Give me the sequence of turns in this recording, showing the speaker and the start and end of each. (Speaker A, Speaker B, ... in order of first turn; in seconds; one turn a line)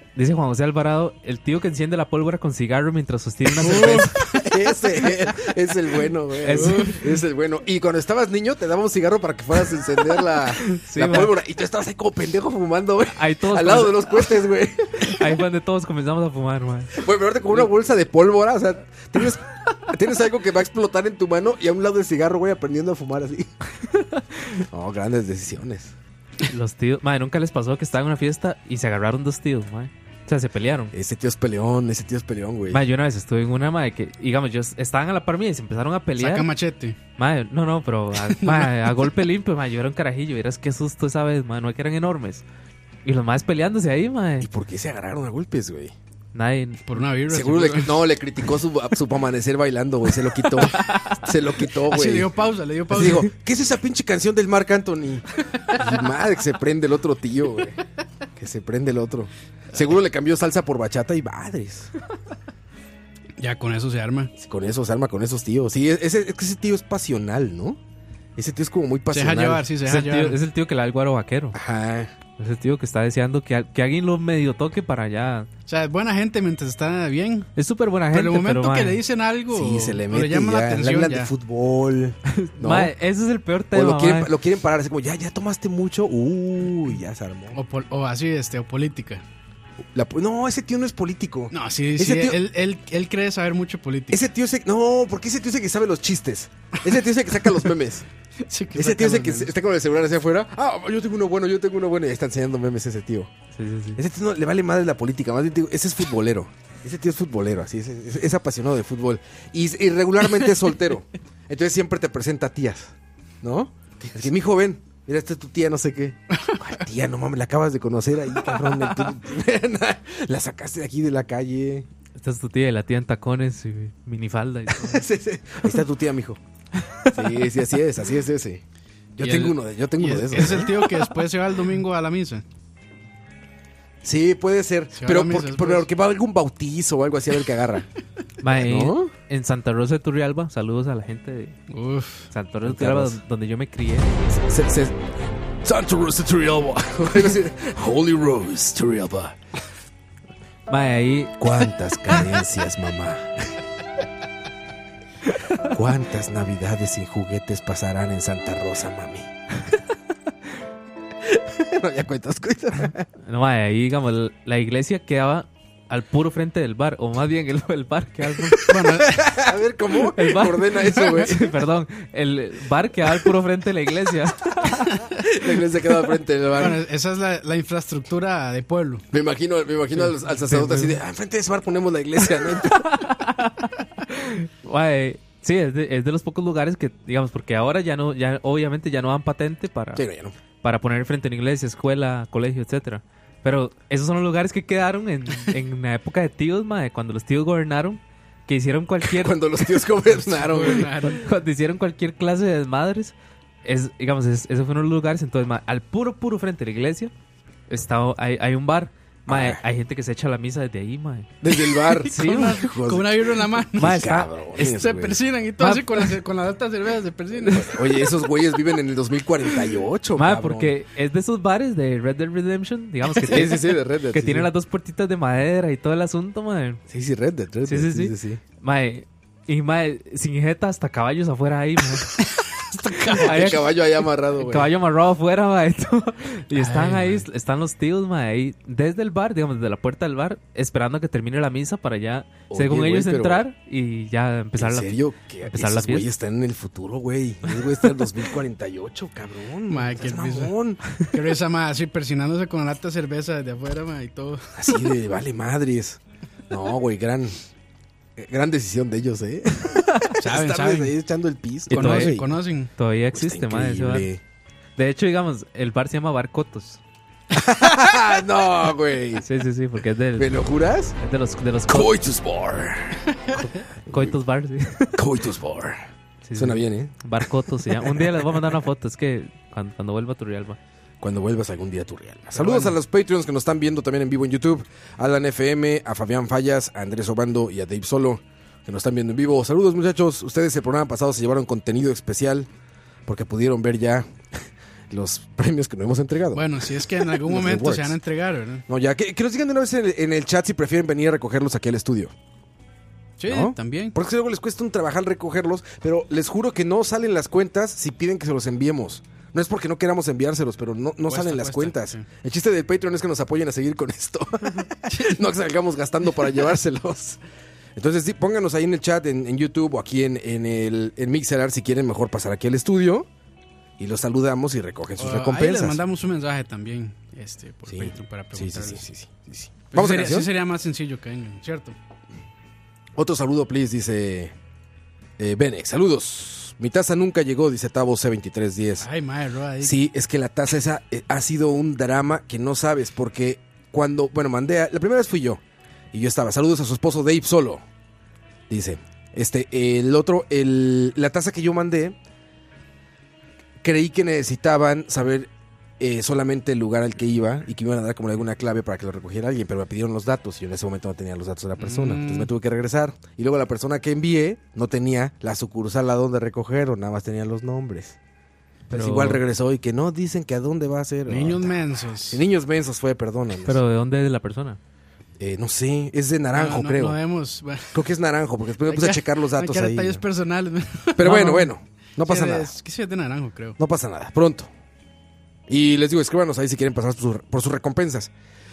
Speaker A: 0.1-4.3
Speaker B: 3.6-4.8
Speaker C: 4.4-15.2
Speaker A: 6.4-7.0
Speaker B: 6.6-7.0
Speaker A: 10.7-11.3
Speaker A: 13.1-14.4
Speaker A: 15.0-17.0
Speaker C: 16.9-23.5
Speaker C: 24.6-25.9
Speaker A: 26.5-30.9
Speaker C: 30.9-32.8
Speaker A: 32.7-36.5
Speaker B: 36.2-37.0
Speaker A: 37.2-42.4
Speaker B: 38.2-39.1
Speaker A: 43.0-44.5
Speaker C: 44.4-45.9
Speaker A: 46.3-46.9
Speaker B: 46.9-48.0
Speaker C: 47.3-52.3
Speaker A: 50.6-51.2
Speaker B: 51.9-53.3
Speaker C: 52.9-57.8
Speaker C: 58.4-61.9
Speaker B: 63.4-64.3
Speaker C: 64.4-67.8
Speaker C: 68.3-69.7
Speaker B: 69.1-70.4
Speaker A: 69.8-71.6
Speaker C: 71.5-72.1
Speaker A: 72.4-75.5
Speaker B: 75.7-77.5
Speaker A: 77.5-79.0
Speaker B: 78.1-81.3
Speaker C: 79.5-82.9
Speaker A: 82.3-84.3
Speaker C: 83.7-87.6
Speaker B: 87.5-89.2
Speaker C: 89.9-92.4
Speaker B: 91.5-94.2
Speaker C: 94.1-98.0
Speaker B: 98.4-99.5
Speaker C: 98.7-103.3
Speaker A: 103.5-104.0
Speaker C: 104.0-121.9
Speaker A: 122.2-125.0
Speaker C: 124.7-126.4
Speaker A: 126.8-127.2
Speaker C: 127.1-128.6
Speaker C: 129.2-130.7
Speaker B: 129.2-132.4
Speaker C: 134.0-137.9
Speaker B: 134.9-135.9
Speaker A: 138.4-141.6
Speaker C: 138.5-139.1
Speaker B: 141.7-142.3
Speaker A: 142.3-144.1
Speaker C: 142.6-143.2
Speaker C: 144.4-145.0
Speaker C: 145.6-149.4
Speaker A: 150.7-151.5
Speaker C: 151.4-153.5
Speaker C: 155.6-159.3
Speaker C: 161.3-163.1
Speaker A: 163.3-169.0
Speaker B: 168.7-169.2
Speaker C: 169.0-171.5
Speaker A: 170.2-175.0
Speaker C: 175.1-176.8
Speaker B: 176.6-179.0
Speaker C: 179.1-183.0
Speaker B: 180.2-180.9
Speaker A: 182.7-190.0
Speaker C: 189.9-190.3
Speaker A: 190.6-199.9
Speaker C: 199.0-200.9
Speaker B: 200.1-201.3
Speaker A: 200.7-207.1
Speaker A: 207.7-211.3
Speaker C: 209.3-209.6
Speaker C: 211.4-215.2
Speaker B: 211.9-214.0
Speaker A: 212.0-212.6
Speaker A: 213.8-214.3
Speaker B: 214.6-218.1
Speaker A: 215.6-216.1
Speaker C: 217.5-220.7
Speaker A: 220.2-226.8
Speaker C: 223.2-224.5
Speaker C: 226.9-228.4
Speaker A: 227.7-232.2
Speaker B: 232.7-233.3
Speaker C: 233.0-234.7
Speaker A: 233.1-233.8
Speaker A: 234.3-246.1
Speaker B: 236.5-237.2
Speaker C: 242.5-243.4
Speaker C: 244.6-250.8
Speaker B: 249.7-254.6
Speaker C: 254.6-257.4
Speaker C: 258.1-262.3
Speaker B: 260.2-260.9
Speaker B: 261.7-262.7
Speaker A: 261.7-262.2
Speaker A: 262.8-264.1
Speaker C: 263.1-264.2
Speaker A: 264.8-266.8
Speaker C: 267.3-269.2
Speaker A: 269.2-270.4
Speaker C: 270.2-270.9
Speaker A: 271.0-271.9
Speaker C: 271.7-274.1
Speaker A: 273.9-275.0
Speaker C: 274.9-278.4
Speaker A: 276.2-280.6
Speaker C: 281.0-292.5
Speaker B: 282.4-282.7
Speaker C: 293.1-298.0
Speaker B: 296.3-298.6
Speaker C: 298.7-302.1
Speaker B: 303.2-303.9
Speaker C: 303.3-317.2
Speaker B: 311.1-312.1
Speaker B: 314.9-315.2
Speaker C: 317.8-323.1
Speaker C: 323.8-325.8
Speaker B: 324.9-328.9
Speaker C: 327.7-330.3
Speaker B: 329.7-331.8
Speaker C: 332.9-334.3
Speaker C: 335.2-338.9
Speaker B: 338.8-339.7
Speaker C: 339.6-345.4
Speaker C: 345.9-347.6
Speaker C: 348.5-352.0
Speaker C: 353.6-368.0
Speaker B: 361.6-362.3
Speaker A: 368.7-369.2
Speaker C: 368.7-373.6
Speaker B: 371.1-372.2
Speaker A: 373.4-374.6
Speaker C: 375.2-377.0
Speaker B: 376.3-377.8
Speaker C: 377.7-380.0
Speaker B: 378.6-383.6
Speaker C: 381.0-382.5
Speaker C: 383.6-384.5
Speaker C: 385.5-388.1